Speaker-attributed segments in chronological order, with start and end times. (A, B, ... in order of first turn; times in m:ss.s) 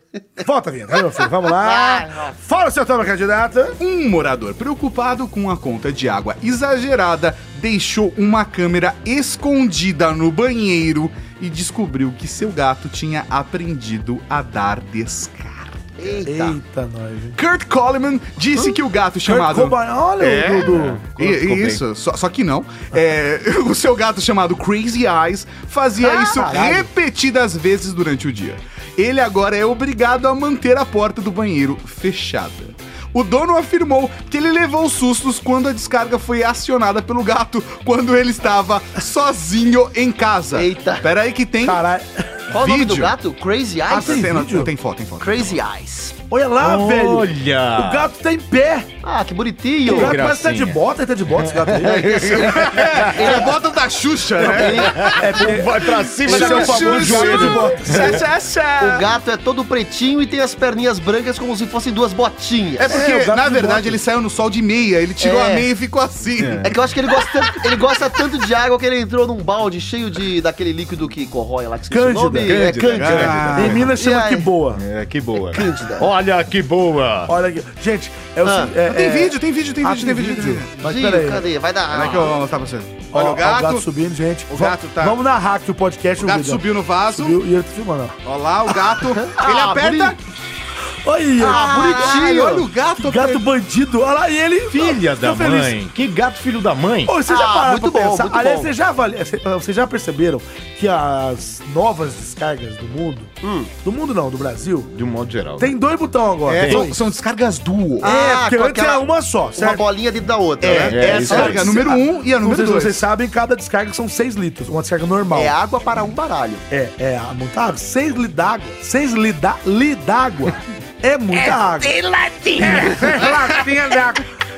0:00.4-0:03.8 A
0:01.5-0:02.3 B
0:03.8-0:15.8 C
0:16.0-0:16.6 B
0:16.3-0:17.4 A
0:17.4-0:19.8 C
0:19.2-0:21.0 A
0:20.2-0:21.8 D
0:21.0-0:41.8 C
0:26.0-0:26.4 B
0:26.4-0:26.9 A
0:40.5-0:41.0 B
0:41.6-0:42.4 A
0:42.5-0:44.3 B
0:42.5-0:43.1 C
0:43.9-0:45.6 C
0:43.9-0:44.7 A
0:45.2-0:46.1 B
0:46.3-0:48.9 A
0:46.6-0:48.1 D
0:49.0-0:50.2 B
0:49.8-0:53.5 D
0:49.9-0:52.5 A
0:51.9-0:53.6 B
0:52.4-0:55.2 C
0:54.4-0:58.2 D
0:54.4-0:55.2 B
0:55.1-0:58.2 A
0:56.2-0:59.1 C
0:58.8-1:03.0 B
1:02.8-1:06.8 C
1:02.9-1:04.0 A
1:05.2-1:05.7 B
1:06.4-1:06.7 D
1:06.6-1:14.5 B
1:11.9-1:12.6 A
1:12.4-1:13.9 D
1:12.9-1:13.9 C
1:13.5-1:14.8 A
1:14.7-1:17.3 D
1:15.4-1:16.1 B
1:17.3-1:21.5 A
1:18.4-1:18.7 B
1:18.9-1:20.8 C
1:20.8-1:22.4 B
1:21.9-1:23.8 C
1:23.1-1:28.1 A
1:24.5-1:25.2 C
1:26.2-1:27.4 C
1:28.2-1:30.2 C
1:29.2-1:30.2 B
1:31.0-1:32.2 A
1:31.4-1:32.7 B
1:31.5-1:33.4 C
1:33.0-1:35.8 A
1:34.7-1:37.2 D
1:37.0-1:43.3 A
1:37.3-1:38.7 B
1:43.4-1:43.7 B
1:43.8-1:44.9 A
1:44.9-1:45.7 D
1:45.6-1:47.0 A
1:46.4-1:46.9 D
1:46.6-1:48.1 C
1:48.0-1:49.0 B
1:48.0-1:49.8 A
1:49.6-1:52.0 B
1:50.6-1:53.0 C
1:50.7-1:51.9 D
1:51.2-1:55.5 A
1:55.3-1:56.6 B
1:56.7-2:02.0 A
2:01.5-2:03.2 D
2:02.6-2:04.2 A